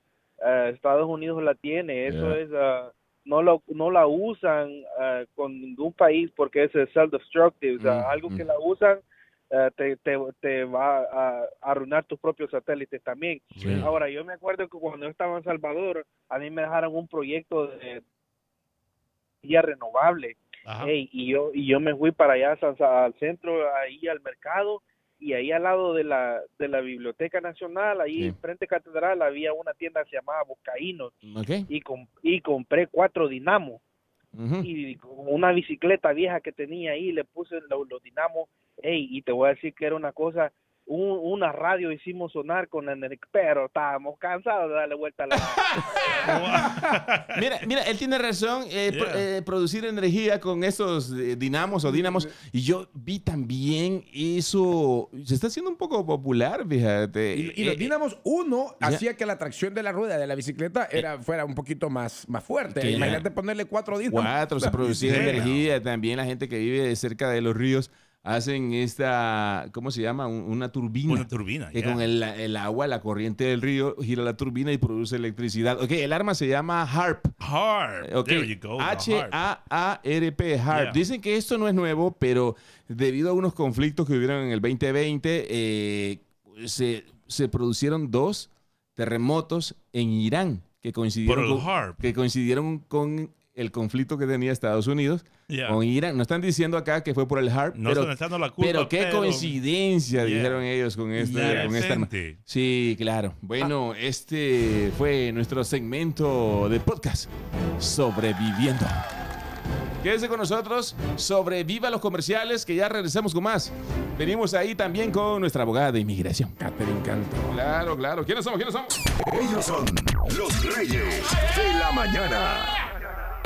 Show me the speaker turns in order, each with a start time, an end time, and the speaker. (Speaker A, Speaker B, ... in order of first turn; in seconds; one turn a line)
Speaker A: 0.4-18.0
Speaker B: 2.0-2.4
Speaker B: 7.8-8.4
Speaker C: 13.5-13.9
Speaker B: 13.6-13.9
Speaker A: 19.4-31.1
Speaker C: 20.6-20.9
Speaker B: 31.2-31.7
Speaker A: 31.7-33.8
Speaker B: 34.3-34.7
Speaker A: 34.6-45.6
Speaker B: 45.3-57.9
Speaker C: 46.2-47.4
Speaker C: 48.9-49.2
Speaker D: 57.3-65.4
Speaker B: 62.7-63.2
Speaker B: 64.1-77.3
Speaker C: 64.8-65.7
Speaker C: 71.1-72.1
Speaker C: 77.4-79.4
Speaker B: 78.0-109.0
Speaker C: 80.7-81.0
Speaker C: 91.2-92.0
Speaker C: 95.5-95.8
Speaker C: 97.7-99.5
Speaker C: 100.2-102.4
Speaker B: 110.0-116.5
Speaker D: 116.6-117.5
Speaker B: 117.5-119.0
Speaker E: 119.0-122.8